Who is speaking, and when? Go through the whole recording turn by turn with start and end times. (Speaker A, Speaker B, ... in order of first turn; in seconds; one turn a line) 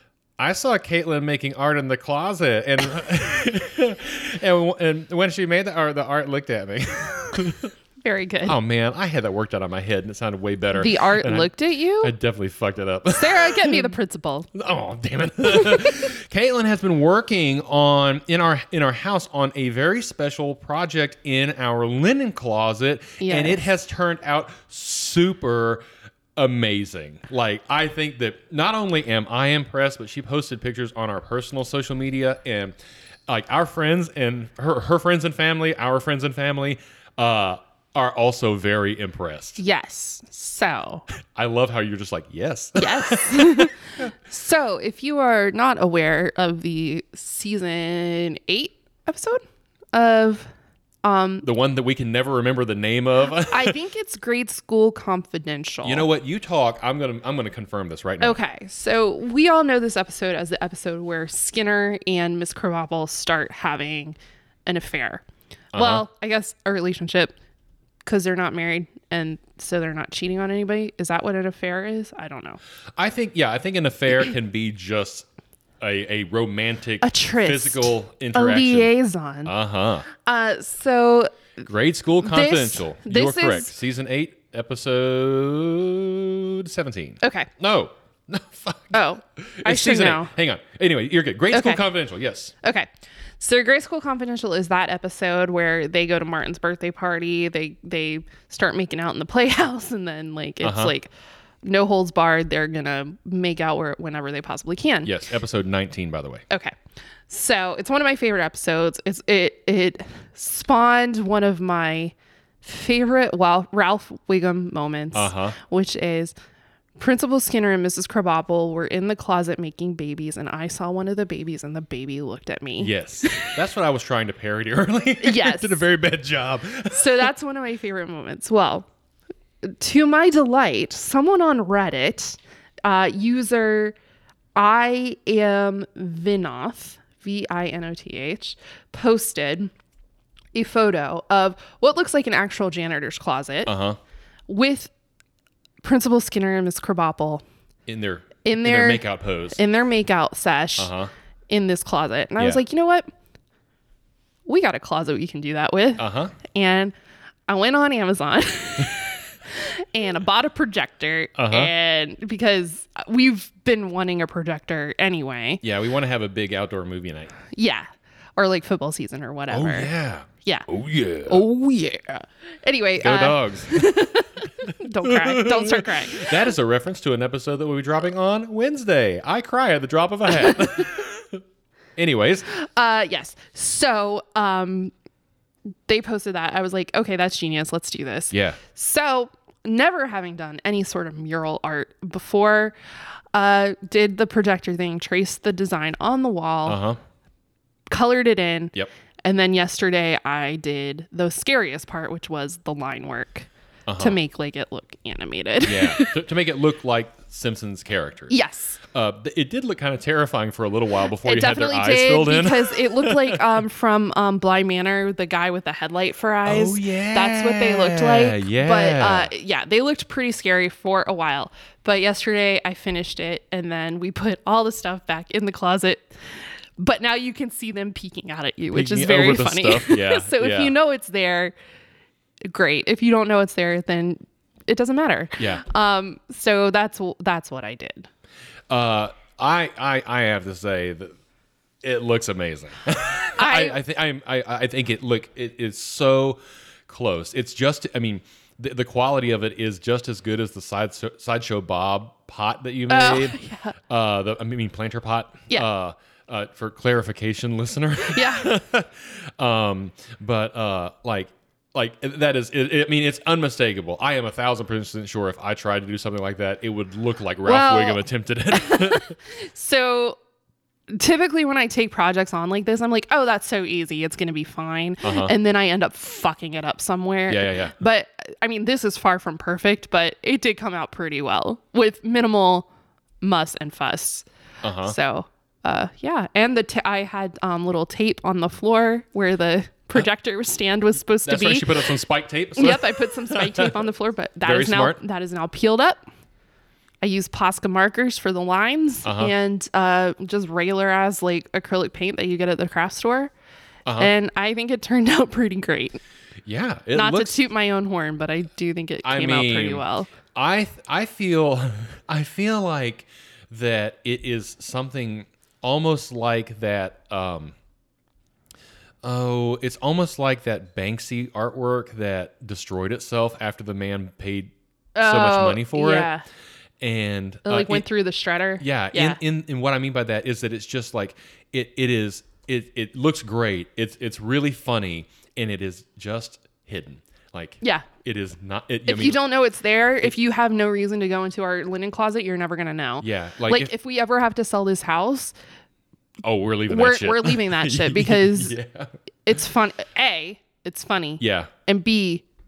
Speaker A: 0.4-7.7
Speaker B: 8.1-8.6
Speaker A: 8.4-13.9
Speaker B: 10.7-12.1
Speaker B: 13.1-14.5
Speaker A: 14.6-25.8
Speaker B: 23.2-23.6
Speaker A: 26.4-32.8
Speaker A: 33.3-39.6
Speaker B: 39.6-41.0
Speaker A: 41.3-43.7
Speaker B: 42.8-49.4
Speaker B: 49.9-50.5
Speaker B: 51.0-51.5
Speaker A: 51.4-53.8
Speaker B: 53.5-56.1
Speaker A: 55.8-58.4
Speaker B: 58.2-67.3
Speaker A: 65.7-66.1
Speaker B: 68.0-72.6
Speaker A: 73.0-75.3
Speaker A: 75.8-78.9
Speaker B: 77.0-79.5
Speaker A: 79.5-80.1
Speaker B: 80.1-81.6
Speaker A: 81.7-92.5
Speaker B: 82.2-83.7
Speaker B: 87.2-87.5
Speaker B: 88.9-90.3
Speaker B: 91.5-91.9
Speaker B: 92.6-101.1
Speaker A: 100.6-100.9
Speaker B: 101.6-105.1
Speaker A: 105.0-106.4
Speaker B: 107.3-116.3
Speaker A: 115.1-115.6
Speaker B: 117.0-123.5
Speaker A: 122.8-127.3
Speaker B: 125.2-125.8
Speaker B: 126.9-128.9
Speaker B: 129.6-133.9
Speaker B: 134.6-139.7
Speaker B: 140.5-143.7
Speaker A: 143.6-144.0
Speaker B: 144.5-144.9
Speaker B: 145.8-147.4
Speaker A: 147.9-149.6
Speaker B: 148.4-150.9
Speaker A: 150.8-151.1
Speaker B: 151.5-153.1
Speaker B: 154.4-156.9
Speaker A: 156.0-156.4
Speaker B: 157.5-165.6
Speaker A: 161.4-161.7
Speaker A: 165.6-167.3
Speaker B: 167.5-169.9
Speaker A: 169.5-171.4
Speaker B: 170.4-170.7
Speaker B: 171.2-176.4
Speaker A: 173.0-173.9
Speaker A: 175.1-181.4
Speaker A: 182.0-182.5
Speaker B: 182.5-184.9
Speaker B: 185.9-192.7
Speaker A: 188.3-188.6
Speaker B: 193.3-196.8
Speaker A: 196.7-197.0
Speaker B: 197.9-198.7
Speaker B: 199.2-206.2
Speaker A: 203.9-204.2
Speaker A: 205.6-213.4
Speaker B: 208.3-208.8
Speaker B: 211.2-231.5
Speaker A: 216.4-219.3
Speaker A: 228.7-230.8
Speaker B: 232.4-238.1
Speaker A: 235.4-235.6
Speaker A: 238.7-241.1
Speaker A: 241.8-253.4
Speaker B: 243.4-243.8
Speaker B: 252.9-253.8
Speaker A: 253.9-269.1
Speaker B: 258.1-258.5
Speaker B: 267.4-270.2
Speaker B: 270.9-282.7
Speaker A: 275.0-275.3
Speaker A: 277.3-277.8
Speaker B: 283.2-284.2
Speaker A: 284.6-284.9
Speaker B: 284.8-292.0
Speaker A: 291.2-293.8
Speaker B: 292.6-296.0
Speaker A: 294.4-295.0
Speaker B: 297.0-303.3
Speaker A: 299.0-299.3
Speaker A: 303.9-304.1
Speaker B: 304.0-306.0
Speaker A: 306.4-307.4
Speaker B: 306.9-310.1
Speaker A: 309.0-309.8
Speaker A: 310.3-317.5
Speaker A: 319.0-326.1
Speaker B: 324.9-326.2
Speaker A: 326.8-327.9
Speaker B: 327.4-329.2
Speaker A: 328.6-339.2
Speaker B: 337.6-337.9
Speaker B: 338.9-345.3
Speaker A: 343.0-343.7
Speaker A: 346.2-348.9
Speaker B: 346.7-348.6
Speaker B: 349.2-352.2
Speaker A: 351.2-351.5